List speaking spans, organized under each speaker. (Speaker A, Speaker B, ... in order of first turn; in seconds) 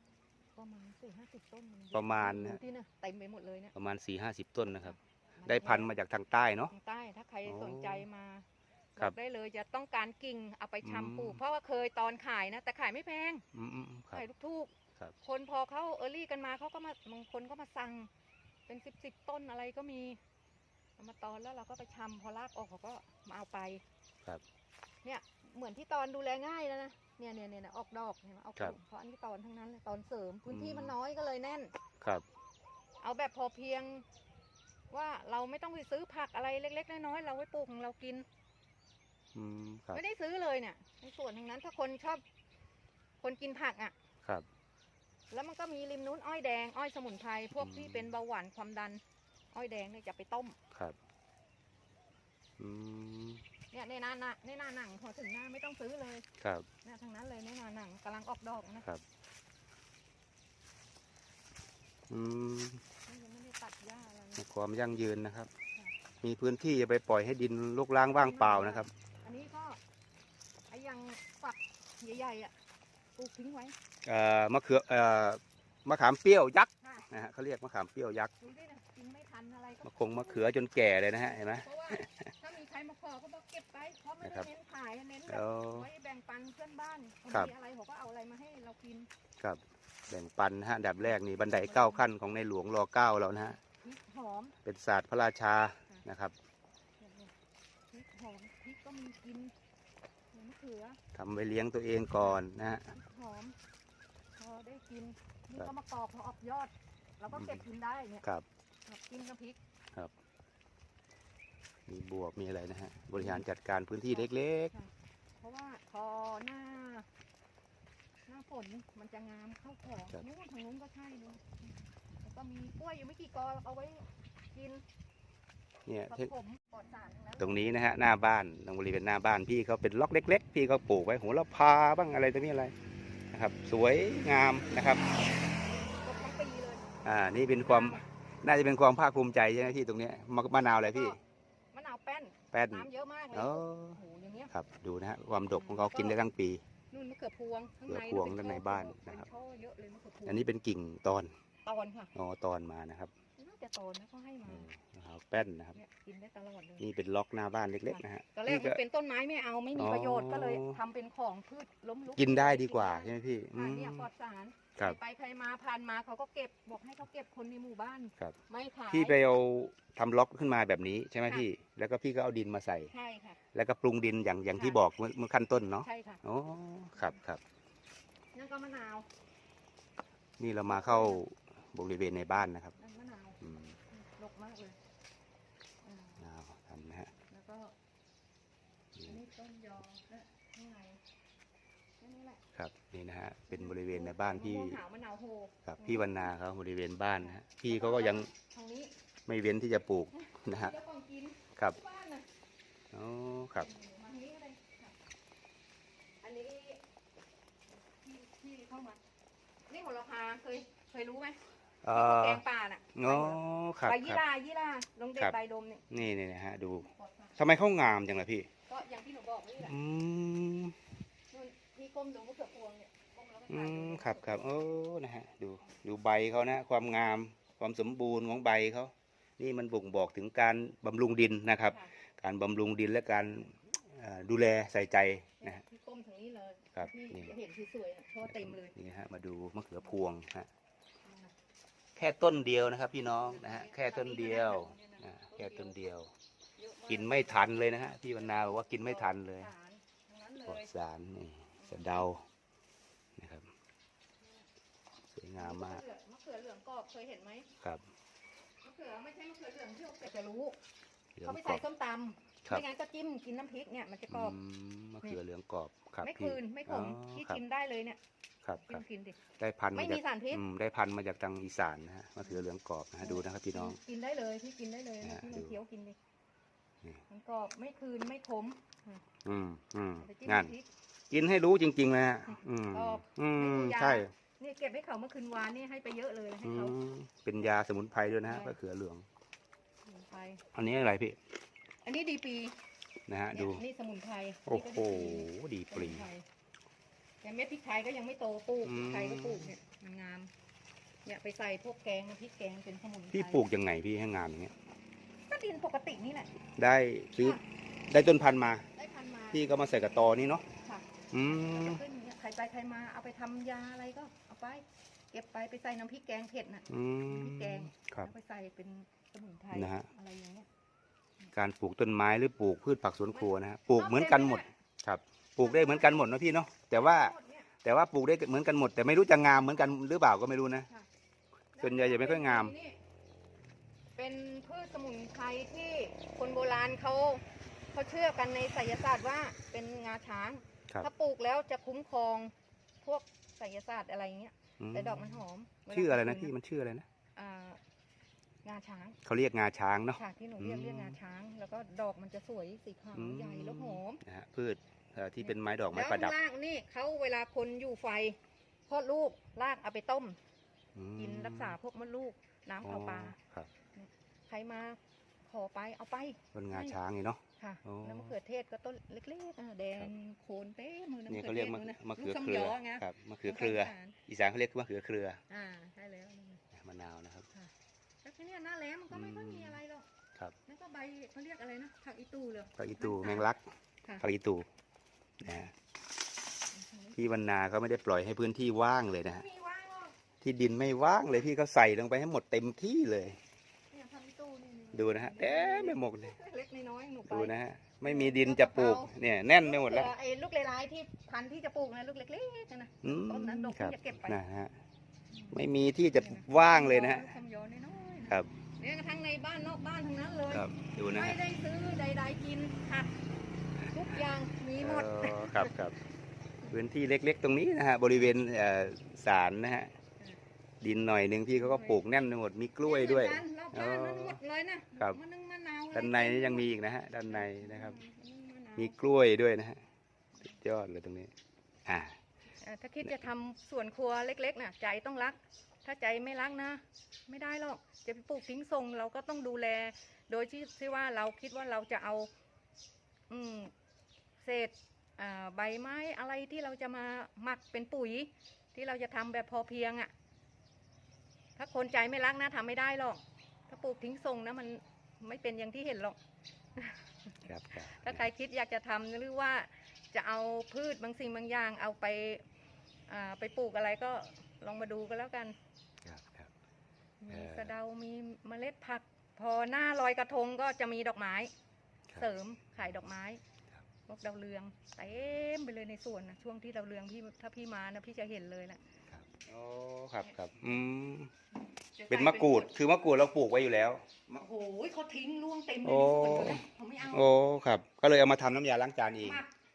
Speaker A: 0.6-3.7, 4.8-5.9, 6.7-13.4, 14.1-18.1, 18.7-20.2, 21.0-23.8, 25.0-31.7, 33.0-34.0, 34.9-38.3, 39.9-42.2, 43.2-43.9, 45.3-49.0, 49.5-50.6, 53.7-56.3, 56.8-58.9, 63.1-64.5, 68.1-69.8, 70.7-72.5, 73.2-73.8, 76.8-77.1, 78.4-80.5, 81.5-89.1, 91.0-92.1, 93.4-94.5, 97.0-97.3, 97.9-99.5, 100.3-101.0, 102.2-103.6, 104.4-108.2, 108.9-109.6, 113.2-113.5, 114.1-117.1, 118.3-124.8, 126.1-127.7, 135.7-136.8, 137.7-138.0, 140.8-141.2, 141.7-144.5, 145.5-146.3, 146.9-150.5, 151.7-152.1, 153.4-154.7, 155.7-156.9, 157.9-169.2, 172.9-173.4, 174.6-174.8, 175.8-176.2, 178.3-179.1, 180.7-181.2, 182.4-183.4, 183.9-184.8, 185.8-186.2, 187.3-187.7, 189.1-191.0, 192.0-192.4, 193.5-196.3, 197.2-198.9, 200.1-202.2, 203.6-204.9, 206.2-206.8, 207.7-209.0, 209.7-211.4, 211.9-215.9, 216.8-217.4, 218.7-219.8, 221.3-224.5, 235.4-238.7, 241.1-241.3, 243.2-245.8, 246.6-247.5, 248.2-250.7, 251.6-252.1, 254.2-254.5, 255.4-257.5, 258.6-260.6, 261.2-264.4, 266.0-268.0, 268.6-269.2, 269.7-270.4, 273.0-276.0, 277.1-279.0, 280.0-280.7, 282.7-286.8, 288.2-288.6, 289.9-290.4, 291.8-292.6, 293.3-296.2, 297.2-300.3, 301.1-303.4, 305.3-306.3, 308.8-309.6, 310.6-320.5, 323.1-324.5, 325.4-326.1, 326.7-327.5, 331.6-332.8, 334.0-346.3, 347.2-347.6, 348.4-349.0, 350.0-354.0, 355.2-360.2, 361.0-363.2, 363.7-366.8, 367.4-374.0, 375.3-376.4, 378.0-379.9, 380.4-383.3, 386.5-387.0, 389.1-389.9, 393.7-404.2, 405.1-405.4, 406.0-412.9, 413.7-415.5, 421.4-421.8, 422.6-426.5, 427.1-428.7, 432.4-442.1, 443.1-443.5, 444.2-449.9, 451.4-456.0, 456.6-462.2, 462.9-465.4, 467.0-471.3, 472.0-473.2, 473.9-478.6, 481.8-482.5, 484.1-487.1, 489.0-489.3
Speaker B: 1.9-2.6, 3.8-6.7, 7.5-8.1, 10.8-11.4, 13.5-14.2, 30.5-30.9, 39.4-40.0, 47.5-48.1, 52.6-53.4, 56.4-56.7, 62.1-62.8, 64.4-65.5, 66.2-68.9, 74.0-78.3, 79.8-82.3, 84.2-84.5, 85.3-85.9, 89.4-93.6, 94.6-96.3, 101.1-102.9, 107.3-107.6, 111.9-114.7, 125.9-126.3, 127.4-132.7, 133.3-135.0, 137.0-141.2, 142.5-144.0, 144.5-146.6, 147.9-149.3, 150.3-151.3, 152.2-153.1, 154.5-155.8, 156.8-158.8, 159.8-160.8, 162.2-164.1, 168.9-172.9, 173.5-177.4, 180.4-182.7, 183.4-183.8, 186.2-187.1, 192.6-194.8, 195.7-198.3, 199.3-200.8, 202.9-203.7, 211.8-212.4, 212.9-214.2, 215.9-218.5, 219.6-220.8, 223.5-235.6, 236.8-237.3, 238.2-240.5, 242.0-246.1, 246.9-249.5, 250.5-252.2, 253.2-253.5, 255.1-255.8, 261.2-261.6, 264.1-267.4, 268.4-268.8, 269.4-273.8, 275.0-275.6, 279.2-280.5, 281.1-284.1, 286.4-289.1, 290.6-291.2, 293.1-293.6, 294.5-296.1, 298.6-299.5, 303.1-304.5, 306.6-308.7, 309.3-310.4, 311.1-311.8, 316.7-318.1, 319.5-319.9, 321.3-330.7, 331.6-332.5, 344.6-346.9, 349.1-351.0, 352.9-356.2, 360.8-361.6, 362.6-363.5, 366.3-368.1, 371.1-375.2, 376.5-377.3, 378.9-379.6, 382.6-383.4, 384.0-384.5, 385.2-385.5, 387.0-389.2, 390.2-393.2, 394.7-396.1, 397.1-399.9, 402.8-404.5, 405.3-407.1, 410.3-411.2, 414.6-415.8, 416.5-419.7, 420.6-424.2, 425.7-427.8, 428.6-429.6, 430.2-431.1, 431.7-432.0, 457.2-458.0, 465.8-466.3, 467.1-467.5, 478.9-481.1, 481.9-483.8, 485.6-489.2